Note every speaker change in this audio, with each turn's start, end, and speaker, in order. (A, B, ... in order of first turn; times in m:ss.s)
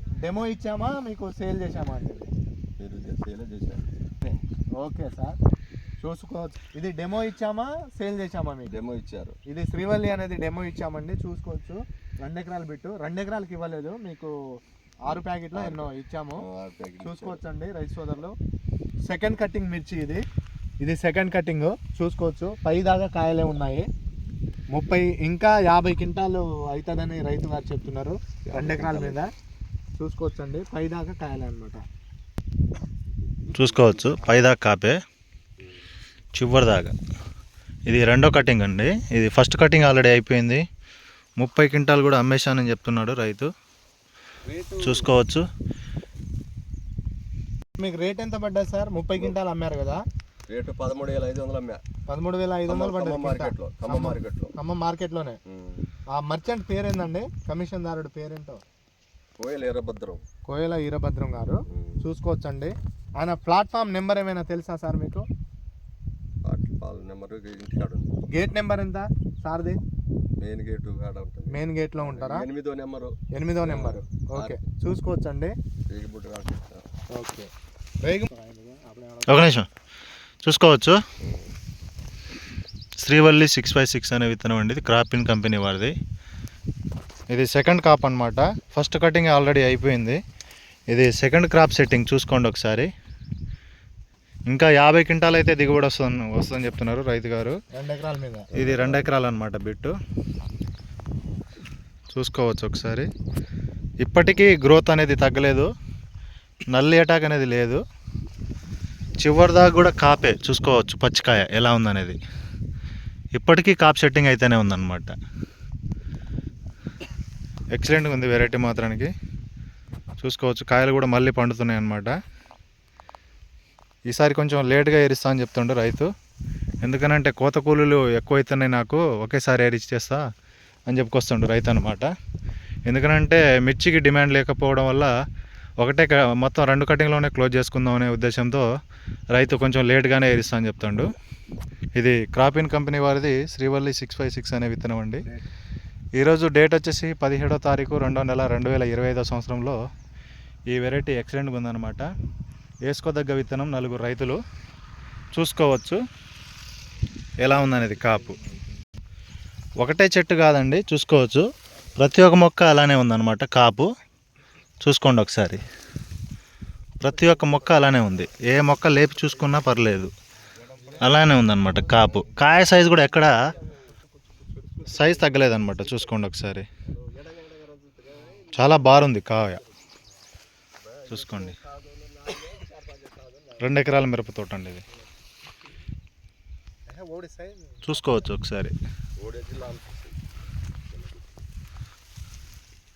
0:00.2-0:02.3 A
0:02.8-0:04.0 B
0:04.2-0:05.4 A
0:06.0-0:08.7 A
0:08.7-0:09.4 B
0:09.5-0:14.3 A
0:15.1-0:17.4 B
0:15.1-0:16.4 A
0:17.0-0:18.3 A
0:19.1-0:20.2 A
0:20.8-0:23.8 A
0:24.7-0:29.3 A
0:28.4-0:29.3 B
0:30.0-0:31.8 A
0:33.4-0:34.2 B
0:33.5-0:35.0 C
0:34.2-0:34.5 A
0:36.4-0:36.9 C
0:37.9-0:40.6 C
0:41.4-0:43.5 C
0:44.5-0:45.1 B
0:44.8-0:45.4 C
0:47.8-0:50.0 A
0:50.5-0:51.8 B
0:52.1-0:55.4 A
0:52.7-0:54.5 B
0:55.5-0:55.9 B
0:56.1-0:58.6 A
0:59.4-1:00.2 B
1:00.5-1:05.2 A
1:01.7-1:02.1 B
1:06.4-1:08.1 B
1:08.3-1:09.8 A
1:10.4-1:14.6 B
1:11.5-1:12.5 A
1:13.4-1:15.5 A
1:15.9-1:16.8 B
1:17.1-1:17.5 A
1:18.0-1:19.5 A
1:19.2-1:19.7 C
1:20.4-1:21.0 C
1:21.2-1:21.5 B
1:23.0-1:25.9 C
1:27.3-1:30.2 C
1:30.9-1:32.9 C
1:34.5-1:37.6 C
1:37.8-1:38.5 A
1:38.5-1:39.1 B
1:38.5-1:39.9 C
1:42.1-1:43.1 C
1:44.0-1:45.7 C
1:46.7-1:47.8 C
1:49.2-1:52.2 C
1:53.3-1:55.1 C
1:57.8-1:59.1 C
2:00.2-2:02.1 C
2:04.1-2:06.1 C
2:06.8-2:10.2 C
2:10.9-2:12.1 C
2:12.9-2:15.1 C
2:15.8-2:18.6 C
2:19.3-2:21.1 C
2:22.0-2:25.2 C
2:26.2-2:29.8 C
2:30.7-2:32.0 C
2:32.9-2:34.4 C
2:35.3-2:36.0 C
2:37.4-2:38.4 C
2:37.6-2:38.6 A
2:39.8-2:41.4 C
2:42.0-2:43.9 C
2:44.8-2:45.6 C
2:47.0-2:50.1 C
2:47.1-2:48.5 B
2:50.6-2:56.1 B
2:51.0-2:53.4 C
2:54.9-2:56.7 C
2:56.9-2:59.1 B
2:58.5-2:59.6 C
3:00.8-3:03.8 B
3:01.1-3:01.6 C
3:03.6-3:04.8 C
3:06.9-3:08.3 A
3:07.8-3:08.8 C
3:09.2-3:10.2 B
3:10.9-3:11.3 B